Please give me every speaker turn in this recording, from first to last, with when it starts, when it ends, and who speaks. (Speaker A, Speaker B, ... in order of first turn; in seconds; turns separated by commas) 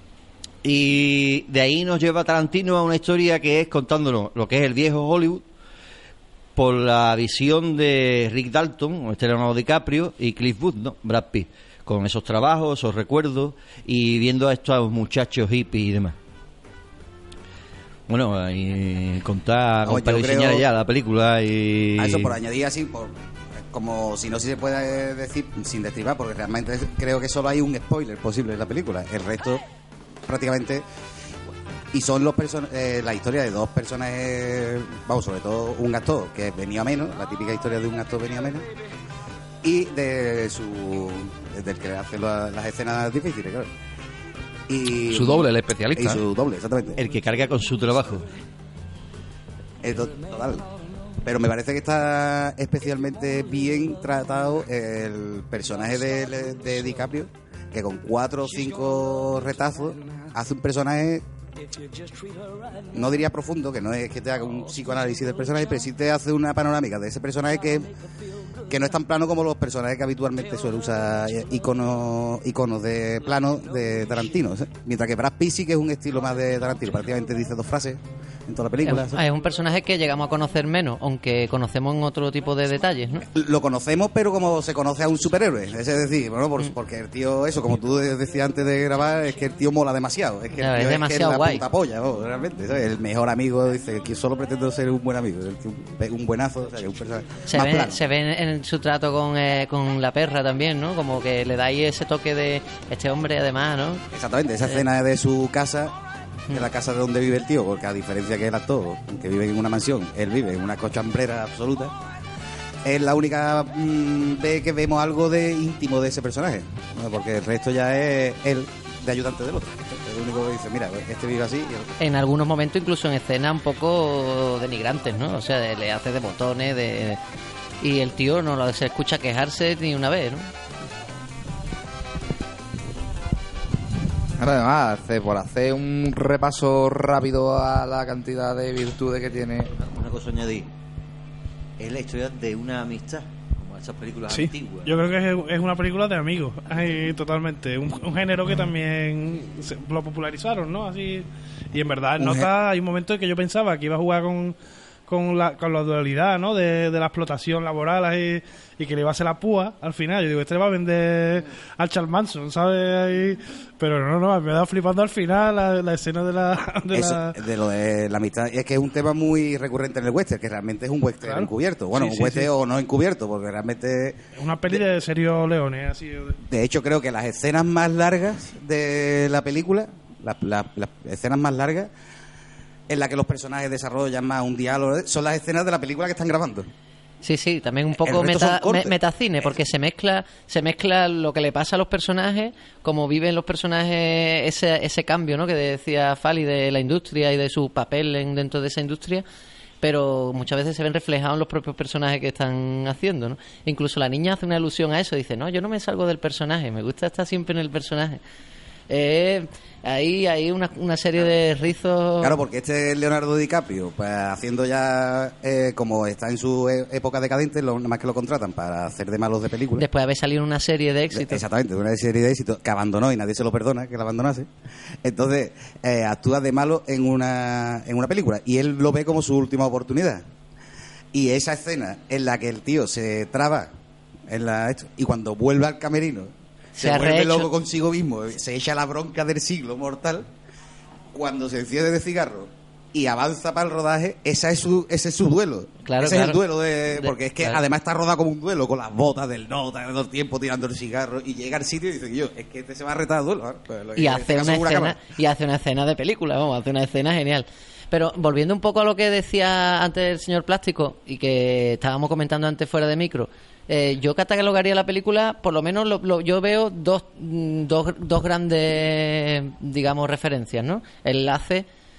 Speaker A: 0.6-5.5, Speaker A: 6.5-16.2, Speaker A: 18.1-22.3, Speaker B: 19.8-20.7, Speaker B: 22.0-23.1, Speaker B: 23.7-29.6, Speaker B: 30.3-30.9, Speaker B: 31.9-38.7, Speaker B: 39.6-43.7, Speaker B: 44.7-47.0, Speaker C: 45.1-46.2, Speaker A: 47.0-48.2, Speaker B: 49.8-50.6, Speaker B: 51.2-61.2, Speaker B: 62.9-67.9, Speaker B: 68.7-79.2, Speaker D: 78.8-83.3, Speaker B: 83.3-98.0, Speaker D: 90.6-91.6, Speaker D: 97.5-104.0, Speaker B: 104.1-105.9, Speaker B: 106.5-111.9, Speaker B: 112.8-121.9, Speaker D: 122.0-127.2, Speaker D: 127.8-130.5, Speaker C: 134.4-139.7, Speaker A: 139.7-140.7, Speaker A: 141.8-144.9, Speaker E: 144.3-154.6, Speaker B: 152.2-152.5, Speaker E: 155.1-167.4, Speaker B: 166.9-174.8, Speaker E: 171.2-172.5, Speaker E: 174.4-176.4, Speaker B: 176.5-181.9, Speaker B: 182.9-186.7, Speaker D: 187.2-199.2, Speaker B: 188.0-188.9, Speaker D: 199.8-208.2, Speaker D: 208.9-212.3, Speaker B: 212.2-219.8, Speaker D: 219.8-221.4, Speaker B: 221.1-224.5, Speaker B: 225.0-230.2, Speaker B: 231.1-233.7, Speaker B: 234.3-240.3, Speaker D: 236.8-237.5, Speaker B: 241.1-255.0, Speaker D: 245.8-247.6, Speaker D: 254.0-271.7